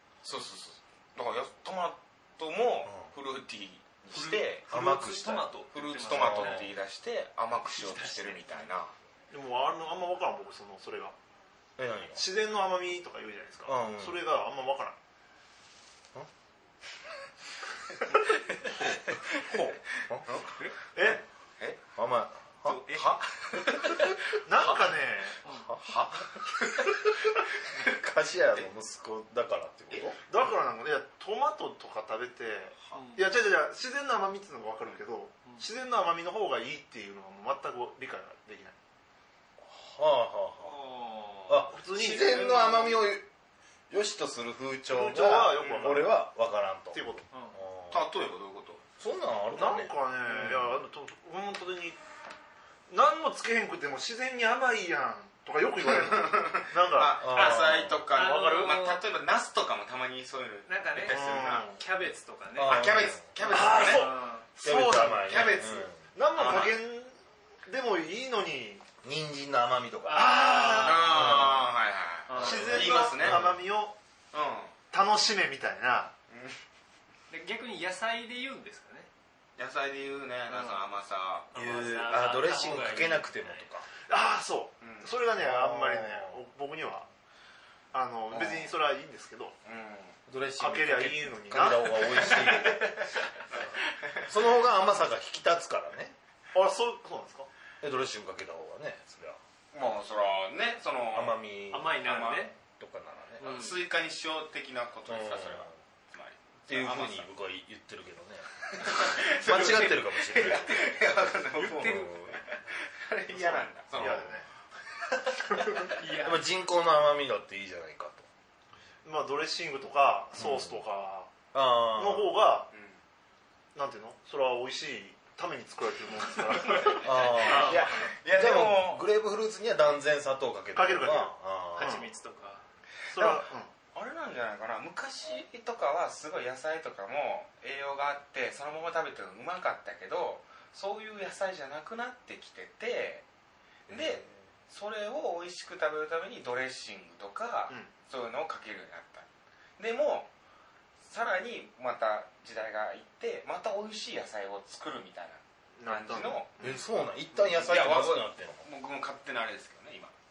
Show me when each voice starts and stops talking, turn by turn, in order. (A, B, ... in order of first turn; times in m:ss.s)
0:00.2-0:05.0 A
0:02.8-0:03.1 B
0:04.1-0:06.7 C
0:04.7-0:05.5 B
0:05.7-0:08.9 A
0:06.1-0:06.7 B
0:07.7-0:08.5 C
0:09.3-0:11.1 D
0:11.8-0:12.2 B
0:12.1-0:15.0 D
0:13.6-0:14.2 B
0:21.0-0:21.2 D
0:22.0-0:23.1 B
0:22.6-0:25.0 A
0:23.8-0:24.1 B
0:24.4-0:25.4 D
0:25.4-0:25.7 C
0:25.5-0:30.2 B
0:25.8-0:27.1 A
0:30.3-0:38.8 D
0:32.9-0:33.2 C
0:39.6-0:40.8 B
0:40.6-0:43.0 C
0:41.5-0:43.2 B
0:41.7-0:42.8 D
0:43.9-0:47.0 B
0:44.9-0:46.1 D
0:45.6-0:46.0 A
0:46.9-0:47.2 D
0:47.3-0:47.6 C
0:47.5-0:48.1 B
0:47.9-0:48.8 A
0:49.0-0:50.8 B
0:49.5-0:52.0 D
0:52.9-0:57.7 D
0:55.8-1:01.7 A
0:57.2-0:58.0 B
0:58.1-0:59.0 C
1:00.7-1:04.5 C
1:01.1-1:01.8 D
1:02.5-1:03.8 B
1:02.6-1:06.8 A
1:03.5-1:05.2 D
1:04.6-1:06.0 B
1:06.1-1:07.1 D
1:07.6-1:08.8 D
1:09.0-1:10.4 B
1:10.1-1:11.4 C
1:10.1-1:11.5 D
1:10.7-1:13.5 A
1:11.1-1:11.6 B
1:12.3-1:12.9 C
1:12.3-1:14.0 D
1:12.4-1:13.6 B
1:14.3-1:14.7 A
1:14.9-1:16.1 D
1:16.3-1:16.6 A
1:17.3-1:19.1 C
1:19.6-1:21.5 A
1:20.5-1:20.8 C
1:21.5-1:23.7 C
1:21.5-1:23.9 B
1:24.1-1:27.1 D
1:24.8-1:25.2 A
1:25.4-1:26.4 B
1:27.9-1:29.6 D
1:28.3-1:28.7 A
1:29.6-1:30.2 A
1:30.3-1:33.0 B
1:30.6-1:32.4 D
1:31.7-1:34.4 A
1:34.2-1:36.1 B
1:36.5-1:37.5 D
1:37.8-1:39.4 B
1:39.7-1:41.4 A
1:41.1-1:43.6 B
1:41.7-1:42.5 C
1:42.0-1:42.5 A
1:43.4-1:43.8 C
1:43.4-1:47.3 A
1:45.1-1:45.7 B
1:46.7-1:48.6 B
1:48.7-1:54.4 A
1:49.3-1:51.0 B
1:49.5-1:49.8 C
1:51.5-1:52.2 C
1:51.8-1:52.4 B
1:54.0-1:54.3 B
1:54.0-1:54.5 D
1:55.1-1:55.9 A
1:55.9-1:56.4 C
1:56.1-1:58.3 B
1:59.0-2:01.3 D
2:00.4-2:00.8 B
2:01.5-2:02.4 B
2:01.9-2:02.7 D
2:02.7-2:03.0 A
2:03.8-2:07.4 D
2:06.6-2:08.1 C
2:06.6-2:09.0 A
2:07.0-2:12.0 B
2:10.8-2:12.0 D
2:11.8-2:12.6 C
2:13.1-2:13.7 D
2:13.1-2:23.2 A
2:23.9-2:29.3 A
2:23.9-2:24.3 B
2:29.8-2:30.3 A
2:31.0-2:36.6 A
2:35.8-2:36.8 D
2:36.6-2:38.6 B
2:37.3-2:40.1 A